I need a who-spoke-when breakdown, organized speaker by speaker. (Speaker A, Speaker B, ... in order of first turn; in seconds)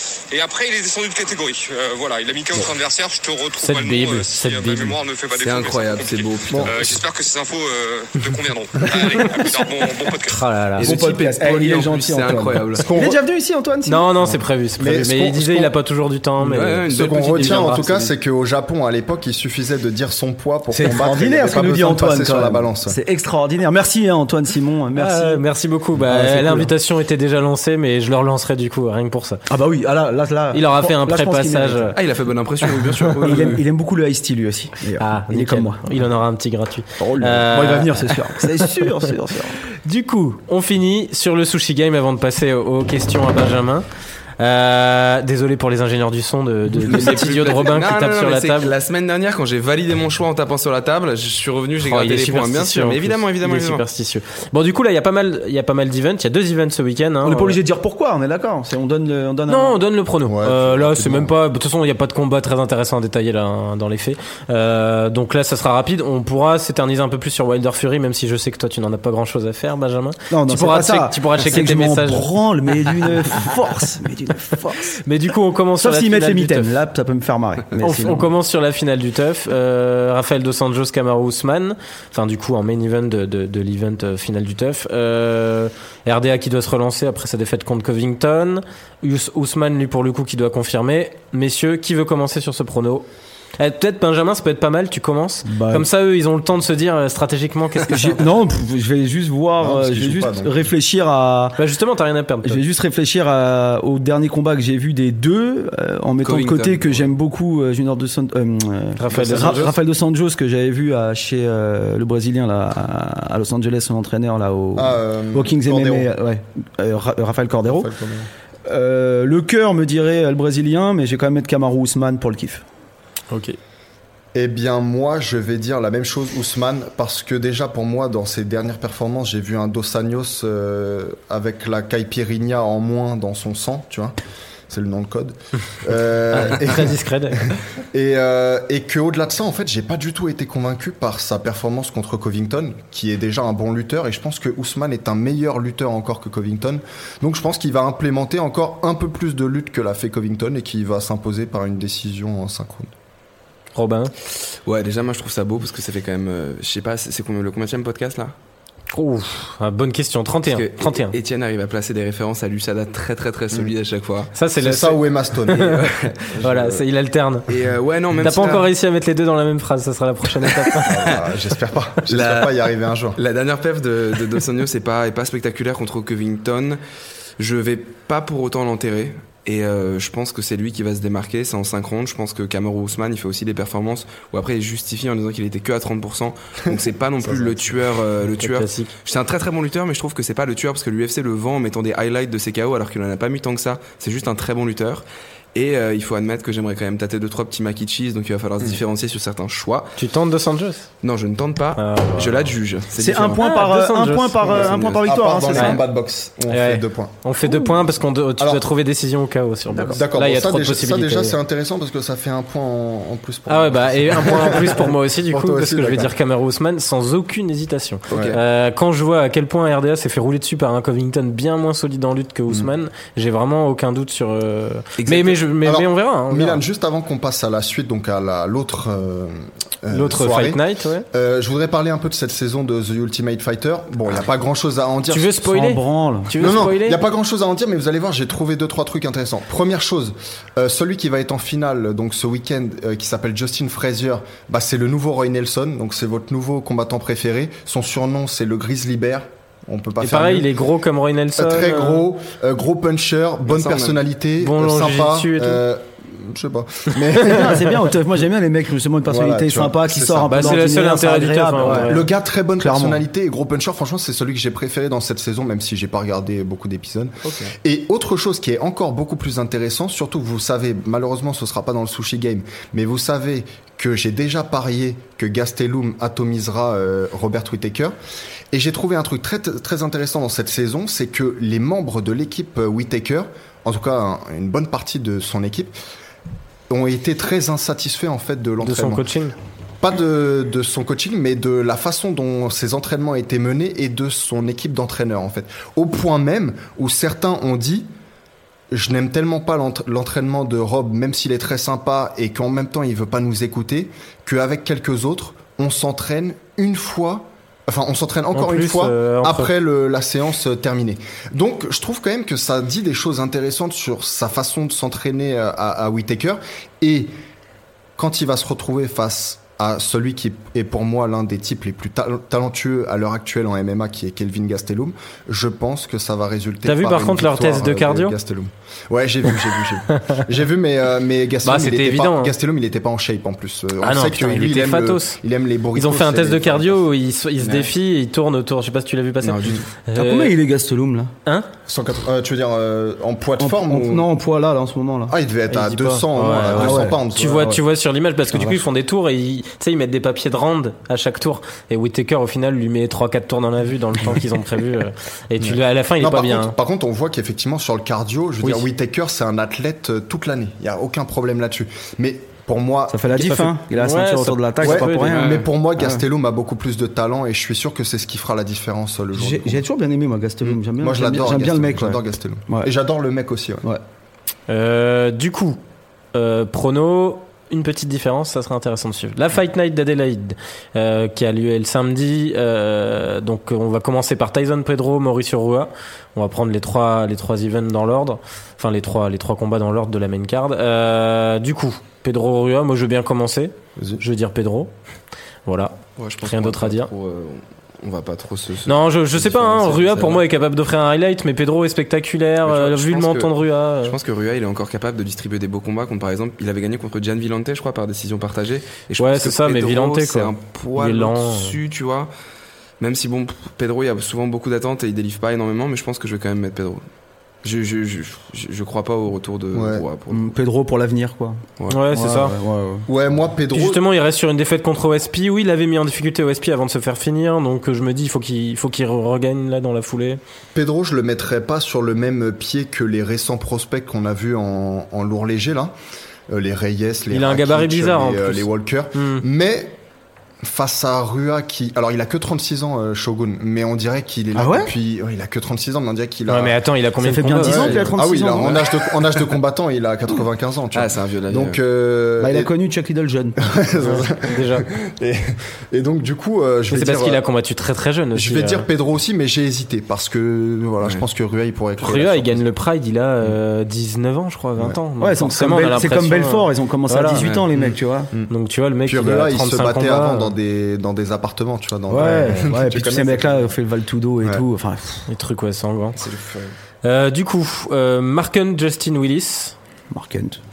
Speaker A: 0.3-10.4
Speaker B: 3.6-5.0, 10.2-10.9, 13.8-17.8, 24.9-29.4, 30.5-32.0, 35.0-38.1, 39.8-43.9, 44.4-48.7, 51.8-57.6, 59.5-72.3, 75.0-76.8, 77.8-93.0, 93.6-98.2, 101.6-102.6, 109.0-109.7, 123.3-123.6, 136.3-137.5, 153.7-154.1, 158.9-161.2, 164.3-165.8, 166.4-167.5, 168.2-171.1, 188.4-188.9, 200.0-200.9, 201.8-202.5, 203.4-204.7, 205.5-205.8, 206.5-211.3, 213.5-226.6, 229.9-231.1, 235.1-237.0, 250.0-252.0, 254.4-255.6, 256.9-257.3, 260.3-262.0, 288.6-289.3, 308.3-309.5, 326.6-328.1, 331.4-332.3, 333.8-335.2, 335.7-340.3, 345.5-356.6, 363.1-365.2, 374.5-375.6, 376.1-394.7, 395.4-396.9, 398.7-403.9, 409.0-411.6, 421.7-422.3, 423.5-430.2, 437.1-439.2, 446.3-447.9, 453.8-454.6, 456.7-458.6, 461.8-467.3, 468.3-470.3, 475.1-476.0, 476.8-479.6
Speaker C: 5.4-7.0, 10.8-12.9, 16.4-18.1, 31.9-33.6, 46.9-53.8, 106.2-107.1, 154.6-158.3, 160.5-164.3, 165.5-166.8, 167.5-168.7, 170.8-171.2, 172.1-176.8, 177.4-199.9, 201.0-203.4, 204.5-205.1, 225.0-225.4, 253.5-254.0, 267.2-267.5, 339.2-339.6, 365.1-365.4, 396.0-400.2, 402.4-403.3, 403.8-412.1, 412.8-416.8, 417.4-420.3, 450.7-451.6, 467.2-467.4, 475.9-476.5
Speaker D: 10.8-14.1, 20.7-25.4, 26.1-26.7, 29.5-32.0, 33.2-36.0, 37.0-39.6, 57.2-59.8, 70.3-75.0, 75.8-78.3, 95.5-95.8, 97.9-101.6, 102.4-117.9, 118.7-122.6, 203.0-205.8, 235.4-236.6, 257.2-263.0, 339.9-341.1, 343.4-345.1, 346.5-347.6, 362.9-366.0, 369.1-372.7, 420.1-422.9, 444.4-444.7, 447.0-448.6, 452.2-453.4, 465.0-468.1, 471.9-475.1, 479.9-480.4
Speaker E: 12.8-13.2, 14.3-15.7, 16.9-23.0, 60.2-61.3, 99.6-100.6, 109.1-109.8, 114.7-116.1, 117.7-118.3, 124.3-134.1, 134.7-136.9, 137.9-152.9, 164.6-165.8, 170.8-173.2, 187.3-187.7, 204.5-208.6, 209.8-216.1, 218.1-218.4, 225.6-235.4, 236.4-250.5, 251.3-257.8, 259.0-260.6, 261.6-277.9, 278.5-285.7, 286.7-289.0, 289.8-297.9, 298.7-317.1, 318.0-336.9, 341.7-344.1, 345.1-347.6, 355.4-363.2, 364.6-369.6, 370.4-373.7, 393.8-394.0, 419.5-419.8, 422.9-423.8, 430.5-435.7, 436.3-439.8, 440.4-446.6, 447.4-452.5, 453.4-457.2, 458.1-462.4, 467.5-468.3, 468.8-473.5